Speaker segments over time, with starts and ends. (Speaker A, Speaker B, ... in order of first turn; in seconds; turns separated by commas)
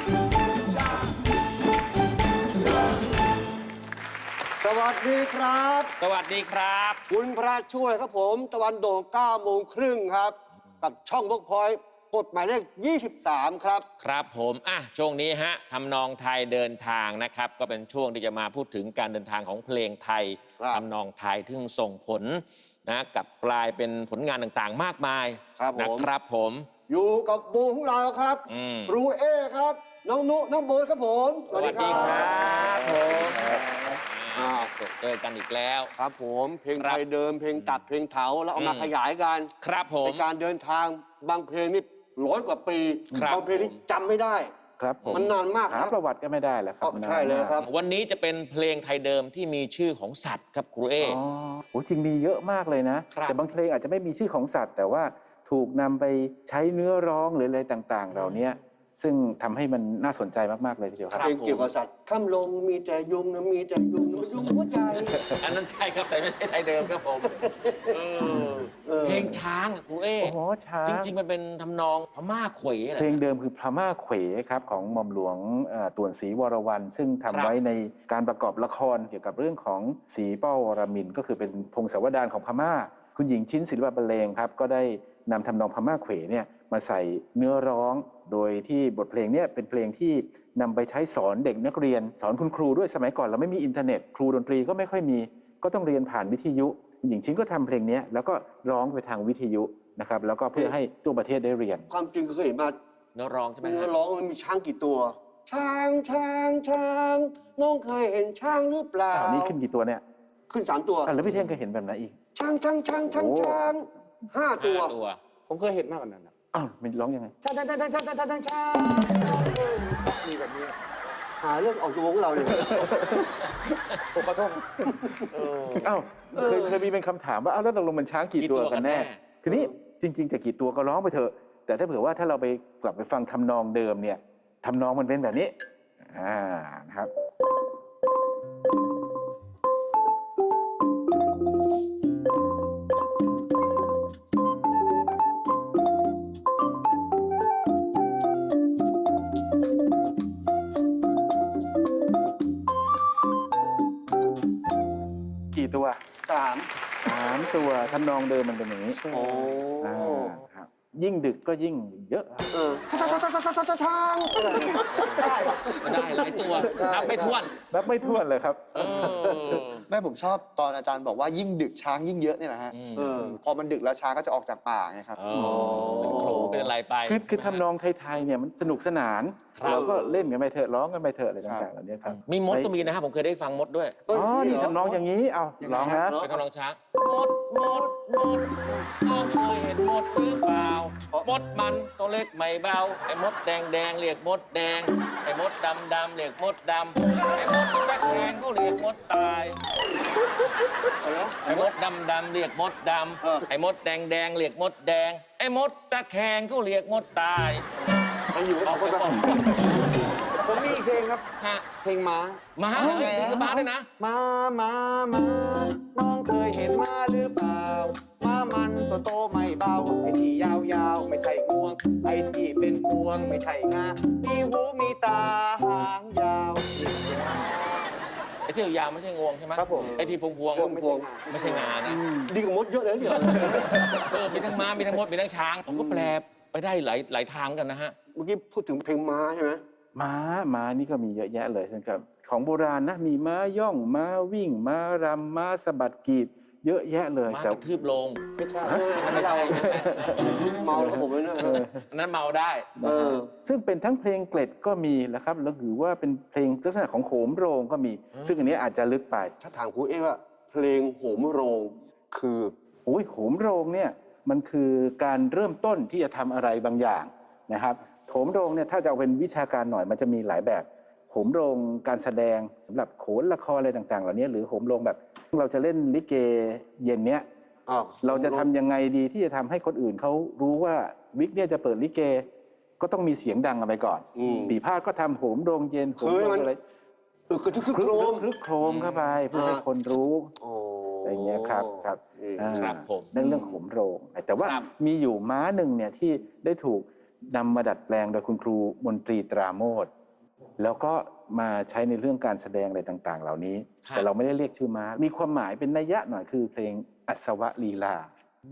Speaker A: 4.6-5.9, Speaker B: 6.0-7.0, Speaker A: 7.1-13.9, Speaker B: 14.0-26.7, Speaker A: 25.6-26.1, Speaker A: 26.9-34.7, Speaker B: 28.5-29.0, Speaker B: 31.5-35.9, Speaker A: 36.0-44.5, Speaker B: 36.7-37.0, Speaker B: 38.5-38.9, Speaker B: 39.6-40.3, Speaker B: 43.1-43.8, Speaker C: 44.8-47.6, Speaker B: 45.0-45.3, Speaker A: 45.1-46.0, Speaker A: 46.8-47.7, Speaker B: 47.6-51.2, Speaker C: 51.0-61.6, Speaker B: 53.1-53.4, Speaker B: 58.1-58.6, Speaker B: 61.1-61.4, Speaker A: 61.2-65.2, Speaker B: 65.2-73.2, Speaker A: 67.3-68.0, Speaker A: 68.8-69.4, Speaker C: 70.2-71.1, Speaker C: 73.0-101.9, Speaker B: 77.3-77.6, Speaker A: 101.9-102.8, Speaker B: 103.2-103.9, Speaker A: 103.6-109.6, Speaker C: 109.1-110.0, Speaker A: 110.5-111.1, Speaker C: 111.0-112.2, Speaker B: 111.3-111.5, Speaker A: 112.3-115.0, Speaker C: 113.0-113.7, Speaker B: 114.6-115.2, Speaker D: 115.5-116.3, Speaker C: 116.5-117.3, Speaker D: 117.4-120.8, Speaker A: 121.4-123.2, Speaker C: 122.4-123.3, Speaker D: 124.1-125.9, Speaker A: 124.9-125.2, Speaker C: 125.7-135.5, Speaker A: 126.3-126.8, Speaker B: 128.4-129.2, Speaker C: 136.1-137.1, Speaker C: 155.5-156.0, Speaker A: 156.3-156.7, Speaker C: 157.0-159.2, Speaker A: 159.1-160.4, Speaker C: 159.8-162.5, Speaker A: 162.5-167.4, Speaker B: 164.9-167.6, Speaker D: 165.2-165.6, Speaker C: 167.5-169.1, Speaker B: 168.7-169.8, Speaker E: 169.9-172.7, Speaker B: 172.7-173.3, Speaker A: 173.0-173.4, Speaker E: 173.4-175.1, Speaker B: 175.2-177.7, Speaker C: 175.4-182.7, Speaker A: 175.4-176.7, Speaker B: 179.6-179.9, Speaker A: 179.6-180.3, Speaker B: 182.1-184.0, Speaker A: 184.1-185.0, Speaker C: 184.1-186.2, Speaker A: 185.8-186.4, Speaker B: 186.2-199.6, Speaker A: 201.0-201.7, Speaker B: 201.4-207.7, Speaker A: 203.2-203.5, Speaker A: 208.3-209.5, Speaker B: 208.6-209.8, Speaker D: 210.4-211.2, Speaker B: 211.4-211.7, Speaker D: 211.8-213.4, Speaker B: 212.6-213.9, Speaker E: 213.0-213.3, Speaker D: 214.0-227.4, Speaker B: 228.4-230.7, Speaker D: 229.6-231.7, Speaker A: 229.7-231.1, Speaker B: 231.3-232.0, Speaker C: 231.9-232.3, Speaker A: 232.3-233.9, Speaker B: 233.0-238.0, Speaker C: 233.5-234.1, Speaker A: 235.7-236.2, Speaker A: 238.1-239.6, Speaker C: 239.9-247.6, Speaker B: 247.3-248.2, Speaker D: 248.4-249.2, Speaker A: 248.6-251.6, Speaker B: 248.9-250.2, Speaker C: 249.5-251.8, Speaker B: 251.4-252.7, Speaker C: 252.8-259.4, Speaker A: 252.8-253.3, Speaker B: 258.2-258.4, Speaker A: 259.4-262.5, Speaker C: 262.9-277.2, Speaker A: 277.7-278.5, Speaker C: 278.0-282.3, Speaker C: 282.8-286.6, Speaker A: 284.2-284.6, Speaker A: 286.0-286.5, Speaker A: 287.3-288.3, Speaker C: 287.7-290.3, Speaker B: 288.6-289.2, Speaker A: 289.3-289.6, Speaker A: 290.4-293.6, Speaker C: 291.1-299.9, Speaker B: 292.6-293.1, Speaker B: 294.4-294.7, Speaker C: 300.6-308.1